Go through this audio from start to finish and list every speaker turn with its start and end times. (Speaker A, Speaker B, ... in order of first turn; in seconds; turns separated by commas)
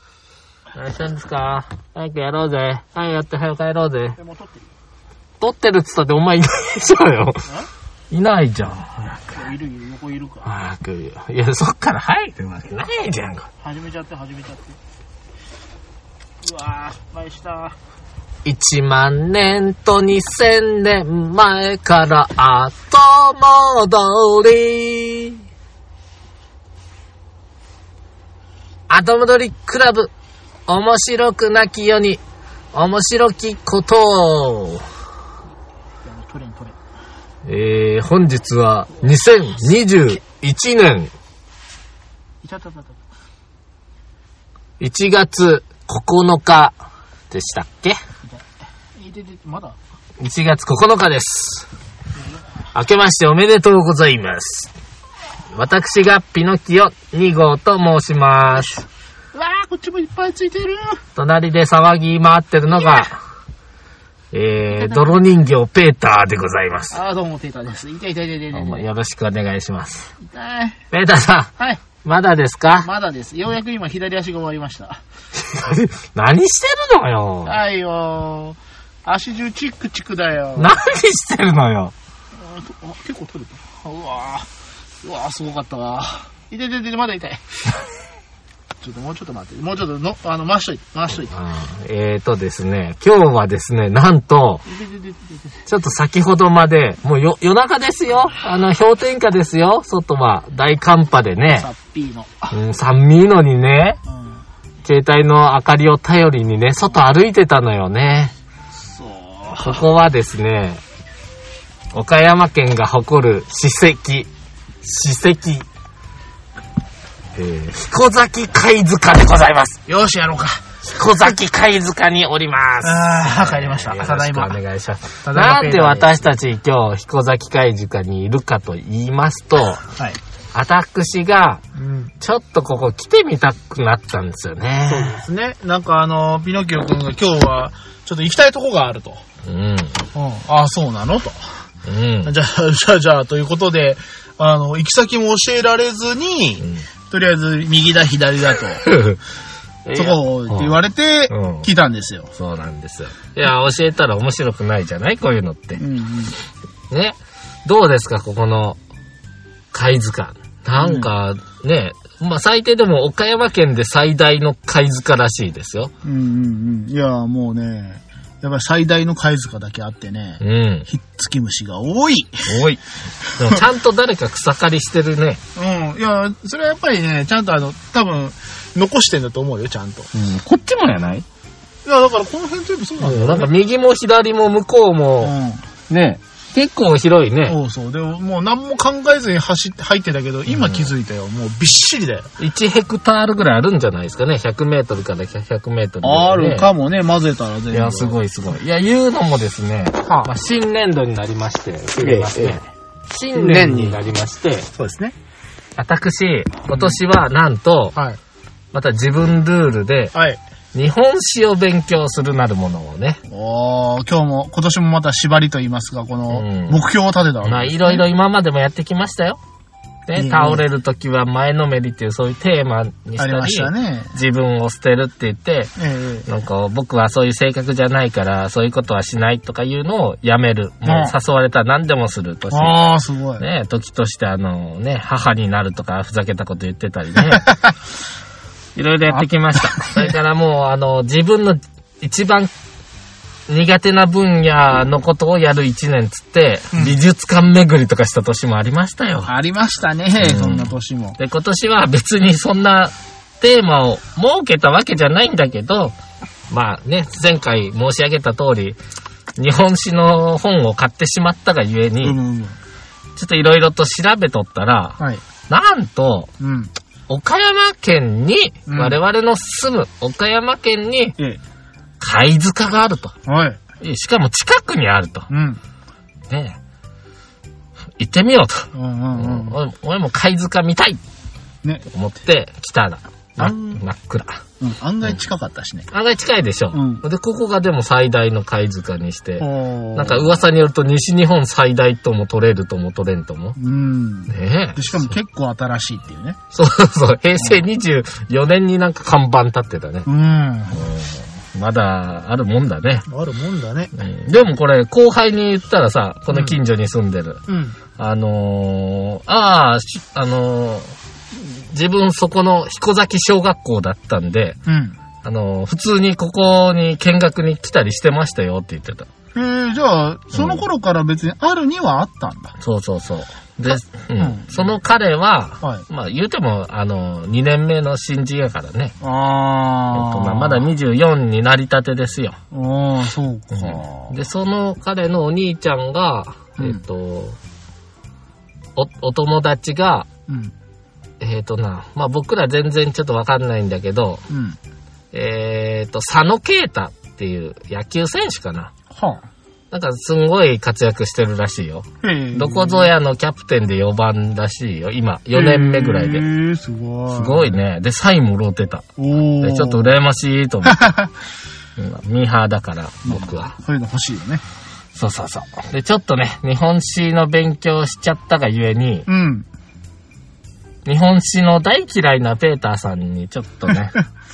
Speaker A: 0.7-4.2, Speaker B: 4.2-4.7, Speaker A: 5.4-7.5, Speaker A: 8.1-9.5, Speaker B: 9.3-10.5, Speaker A: 10.4-13.5, Speaker B: 13.6-14.8, Speaker B: 16.4-17.8, Speaker A: 18.4-25.4, Speaker A: 28.9-30.1, Speaker A: 30.7-32.2, Speaker A: 32.7-34.9, Speaker B: 36.0-36.8, Speaker A: 37.5-41.1, Speaker B: 39.0-40.2, Speaker B: 42.4-43.0, Speaker A: 44.8-46.8, Speaker A: 47.3-48.0, Speaker B: 48.2-49.8, Speaker A: 50.2-51.7, Speaker A: 52.7-54.7, Speaker A: 55.5-58.9, Speaker B: 59.3-61.0, Speaker A: 61.2-63.2, Speaker A: 64.3-67.0, Speaker B: 64.7-65.2, Speaker B: 66.9-68.8, Speaker A: 68.5-70.1, Speaker B: 70.2-70.8, Speaker A: 70.9-72.9, Speaker B: 71.6-71.8, Speaker B: 72.8-75.0, Speaker A: 75.3-77.6, Speaker B: 77.4-80.8, Speaker A: 80.6-81.9, Speaker B: 82.3-84.5, Speaker B: 85.0-87.8, Speaker B: 88.8-91.4, Speaker A: 91.2-94.7, Speaker B: 94.7-95.6, Speaker A: 95.7-101.7, Speaker B: 101.6-102.6, Speaker A: 102.5-104.0, Speaker A: 104.8-108.3, Speaker B: 108.7-109.9, Speaker A: 109.6-110.8, Speaker A: 111.9-114.3, Speaker A: 114.8-115.7, Speaker A: 117.3-119.8, Speaker B: 119.9-120.7, Speaker A: 120.8-129.9, Speaker B: 122.8-124.6, Speaker B: 125.2-126.1, Speaker A: 130.5-131.6, Speaker B: 131.8-132.1, Speaker A: 132.2-135.2, Speaker B: 134.9-139.2, Speaker A: 139.4-140.1, Speaker B: 140.1-141.4, Speaker A: 141.9-142.3, Speaker B: 142.2-148.8, Speaker A: 146.6-146.9, Speaker A: 148.8-149.2, Speaker A: 149.9-150.8, Speaker B: 149.9-152.3, Speaker A: 151.3-151.7, Speaker A: 152.3-155.8, Speaker B: 155.8-156.4, Speaker A: 156.9-158.8, Speaker A: 159.7-165.9, Speaker B: 160.8-161.1, Speaker B: 166.0-172.6, Speaker A: 170.4-170.9, Speaker A: 172.5-175.4, Speaker B: 175.6-180.1, Speaker A: 180.1-181.2, Speaker B: 181.8-183.5, Speaker A: 183.0-185.3, Speaker B: 185.2-185.7, Speaker A: 185.9-187.6, Speaker B: 187.5-192.3, Speaker A: 190.5-190.9, Speaker A: 192.4-196.7, Speaker B: 196.0-198.2, Speaker A: 197.7-204.7, Speaker B: 200.0-200.3, Speaker B: 202.0-202.6, Speaker B: 203.3-204.0, Speaker B: 204.7-205.2, Speaker A: 205.8-208.0, Speaker B: 206.7-207.0, Speaker B: 207.9-208.2, Speaker A: 208.7-210.2, Speaker B: 210.1-210.4, Speaker A: 210.7-213.2, Speaker B: 213.3-218.0, Speaker A: 216.3-216.8, Speaker A: 217.4-219.4, Speaker A: 220.1-225.7, Speaker B: 220.2-220.6, Speaker B: 223.2-224.1, Speaker B: 225.8-226.3, Speaker A: 226.3-232.8, Speaker B: 230.8-231.2, Speaker B: 232.5-233.4, Speaker A: 233.4-237.5, Speaker B: 237.3-237.6, Speaker A: 238.8-242.5, Speaker B: 239.1-240.1, Speaker A: 243.5-249.3, Speaker B: 249.3-251.2, Speaker A: 250.2-255.9, Speaker A: 256.5-258.8, Speaker A: 259.4-262.2, Speaker B: 262.0-262.6, Speaker A: 263.2-266.3, Speaker B: 266.4-266.7, Speaker A: 267.1-271.2, Speaker B: 268.7-269.0, Speaker A: 272.0-273.1, Speaker B: 273.3-273.6, Speaker A: 273.8-275.3, Speaker B: 275.3-275.6, Speaker A: 276.3-276.6, Speaker A: 278.0-281.0, Speaker B: 278.7-279.6, Speaker A: 281.9-284.4, Speaker B: 283.4-283.8, Speaker B: 284.6-285.9, Speaker A: 285.9-293.6, Speaker B: 286.7-287.0, Speaker B: 289.4-290.4, Speaker B: 293.6-296.4, Speaker A: 294.3-295.1, Speaker A: 296.5-300.1, Speaker B: 297.4-297.6, Speaker B: 300.1-301.0, Speaker A: 300.8-303.1, Speaker B: 303.1-303.9, Speaker A: 303.9-307.4, Speaker B: 306.3-306.6, Speaker B: 307.5-307.8, Speaker A: 308.0-314.6, Speaker B: 314.7-315.0, Speaker A: 315.2-319.1, Speaker B: 319.4-322.6, Speaker A: 320.3-320.6, Speaker A: 322.6-328.9, Speaker B: 323.7-324.7, Speaker B: 329.0-330.7, Speaker A: 329.9-332.4, Speaker B: 332.5-334.1, Speaker A: 333.5-337.4, Speaker A: 338.8-340.1, Speaker B: 340.3-340.5, Speaker A: 341.2-344.2, Speaker B: 344.3-344.6, Speaker A: 345.1-348.7, Speaker B: 348.9-349.2, Speaker A: 349.7-356.2, Speaker B: 352.0-352.9, Speaker B: 355.3-357.6, Speaker A: 357.1-358.9, Speaker B: 359.0-359.9, Speaker A: 359.4-360.9, Speaker B: 360.6-361.1, Speaker A: 361.8-363.5, Speaker B: 363.1-364.4, Speaker A: 364.9-369.1, Speaker B: 369.1-369.5, Speaker A: 370.9-374.0